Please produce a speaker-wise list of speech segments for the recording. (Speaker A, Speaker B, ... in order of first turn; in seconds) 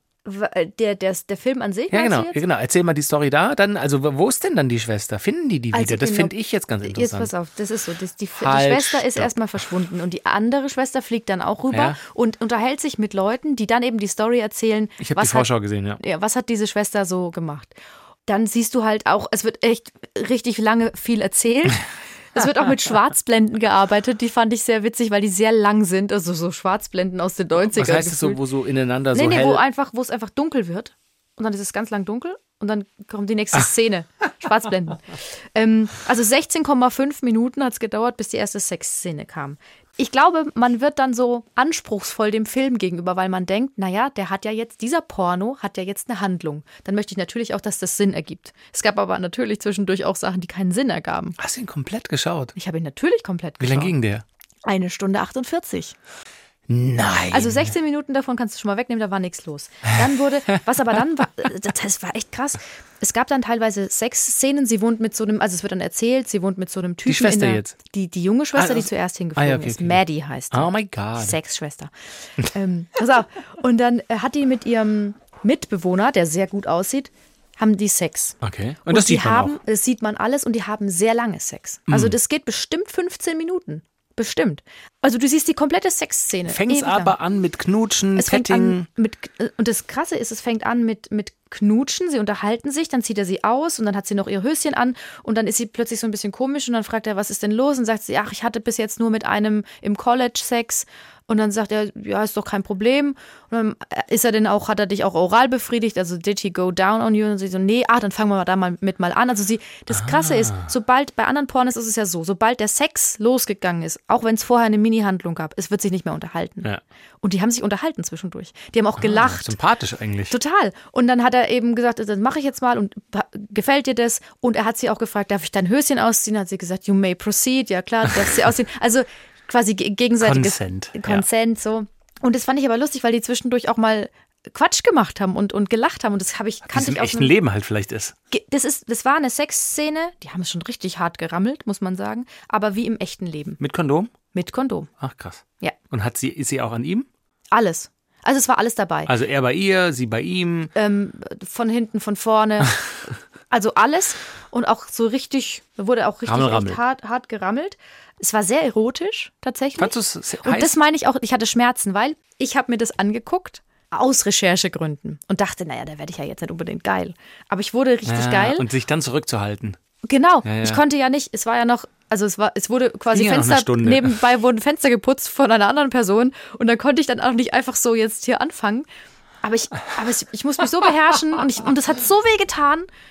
Speaker A: 0.2-2.4, 5.7-6.3, 6.8-15.5, 16.0-17.7, 18.3-28.4, 29.1-51.4, 52.5-53.9, 54.6-56.0, 57.3-71.9, 72.4-78.4, 78.9-87.1, 88.2-116.7, 117.2-119.5, 120.3-137.3, 138.3-143.6, 144.3-144.9, 147.5-149.1, 150.7-152.8, 153.5-168.7, 170.1-178.8, 179.4-182.9
Speaker B: 1.9-7.3, 8.4-9.3, 11.7-12.0, 15.0-16.0, 27.6-29.6, 51.4-52.5, 53.6-54.2, 56.7-57.7, 67.0-67.7, 68.5-71.4, 78.4-79.5, 81.9-82.1, 86.5-88.9, 109.9-110.7, 119.0-120.3, 130.2-131.2, 136.7-138.1, 143.6-144.1, 145.0-147.1, 149.1-150.7, 156.2-156.8, 159.8-160.8, 168.1-169.8, 170.4-170.8, 173.1-174.2